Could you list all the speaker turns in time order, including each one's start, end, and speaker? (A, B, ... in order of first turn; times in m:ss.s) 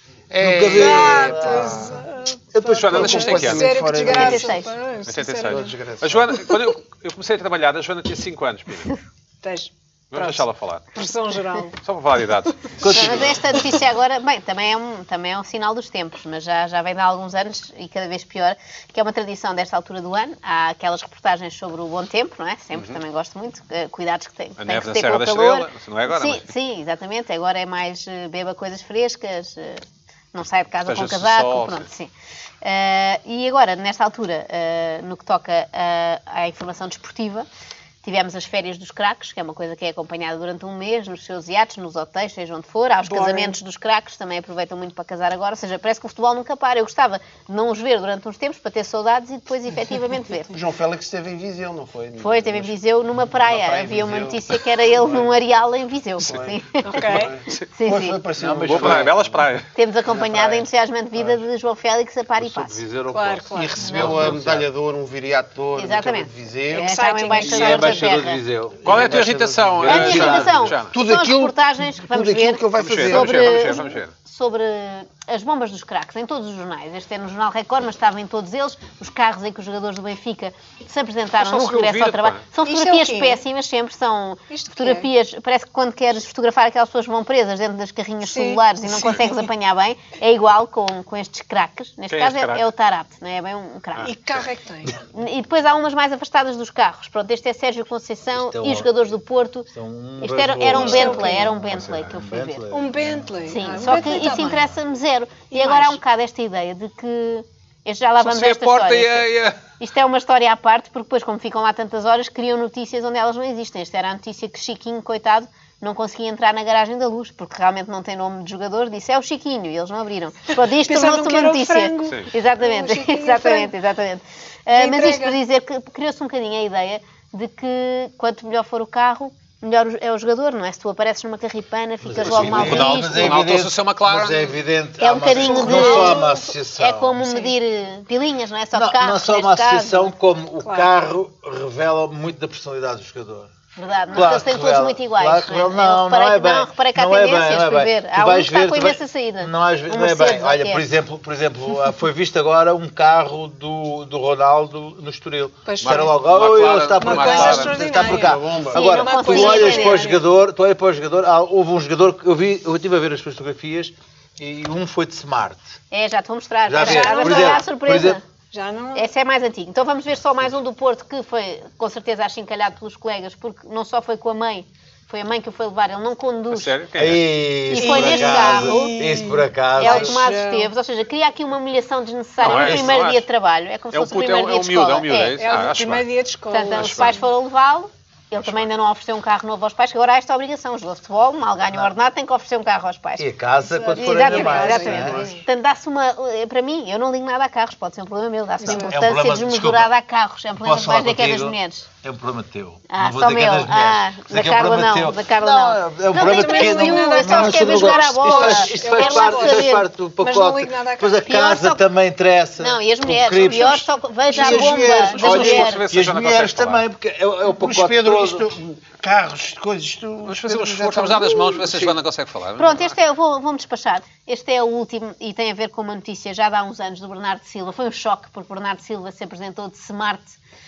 0:00.3-0:02.0 A
0:00.4-0:01.9 B
0:00.7-0:05.7 C
0:02.5-0:03.3 B
0:02.6-0:03.7 D
0:02.9-0:04.6 A
0:04.0-0:04.7 E
0:05.0-0:08.9 D
0:05.5-0:06.4 A
0:09.4-0:11.7 C
0:10.1-0:10.8 D
0:11.8-0:13.4 D
0:12.8-0:13.4 B
0:12.8-0:32.1 E
0:24.6-0:26.5 D
0:30.8-0:31.9 D
0:32.6-0:37.4 E
0:38.0-0:50.6 E
0:43.0-0:43.5 C
0:50.5-0:55.3 A
0:52.2-0:57.2 E
0:56.2-0:59.1 A
0:56.8-0:57.4 C
0:57.4-0:57.7 D
0:57.8-0:58.2 E
0:58.3-0:59.5 B
0:58.6-0:59.7 D
0:59.7-1:02.8 E
1:00.1-1:00.6 B
1:02.4-1:04.7 B
1:03.1-1:04.2 C
1:03.5-1:06.9 A
1:05.8-1:08.4 E
1:06.7-1:08.2 C
1:07.4-1:10.7 B
1:08.8-1:10.9 D
1:08.9-1:13.8 A
1:09.8-1:34.2 E
1:12.8-1:14.1 D
1:21.4-1:22.4 D
1:22.6-1:23.4 C
1:24.5-1:25.1 C
1:28.2-1:29.4 C
1:32.1-1:32.6 D
1:34.0-1:35.0 C
1:35.1-1:39.7 E
1:38.3-1:38.9 B
1:39.7-1:44.2 B
1:40.2-1:42.6 E
1:40.7-1:42.0 D
1:40.8-1:41.4 C
1:42.7-1:44.7 C
1:43.5-2:13.4 E
1:45.5-1:46.0 C
1:48.2-1:49.6 D
2:00.8-2:03.7 C
2:04.7-2:05.4 C
2:12.0-2:17.2 B
2:12.2-2:14.6 D
2:15.0-2:20.1 E
2:15.4-2:15.7 D
2:15.4-2:16.4 C
2:17.2-2:17.5 C
2:18.7-2:23.5 B
2:20.6-2:20.9 C
2:23.8-2:30.8 E
2:24.1-2:45.7 B
2:35.6-2:36.2 C
2:35.8-2:37.8 D
2:37.0-2:40.2 C
2:37.9-2:38.9 A
2:38.7-2:40.1 E
2:45.9-2:48.2 E
2:46.7-2:48.2 B
2:46.8-2:47.8 C
2:48.5-2:49.0 C
2:48.9-2:56.8 E
2:56.5-2:57.3 D
2:57.0-3:00.2 B
2:57.7-2:58.9 E
2:57.7-3:00.7 C
2:59.8-3:05.4 E
3:02.4-3:03.2 D
3:02.4-3:03.0 B
3:03.9-3:06.1 D
3:05.4-3:07.2 C
3:06.5-3:13.2 E
3:06.7-3:07.1 D
3:13.2-3:15.3 B
3:13.6-3:15.4 C
3:13.9-3:21.9 E
3:18.6-3:19.0 C
3:18.6-3:19.9 B
3:20.6-3:38.5 B
3:22.9-3:29.9 E
3:26.1-3:31.3 C
3:31.2-3:31.8 E
3:32.6-3:35.8 E
3:34.3-3:36.8 D
3:37.5-3:41.8 A
3:40.2-3:43.0 D
3:42.6-3:50.4 E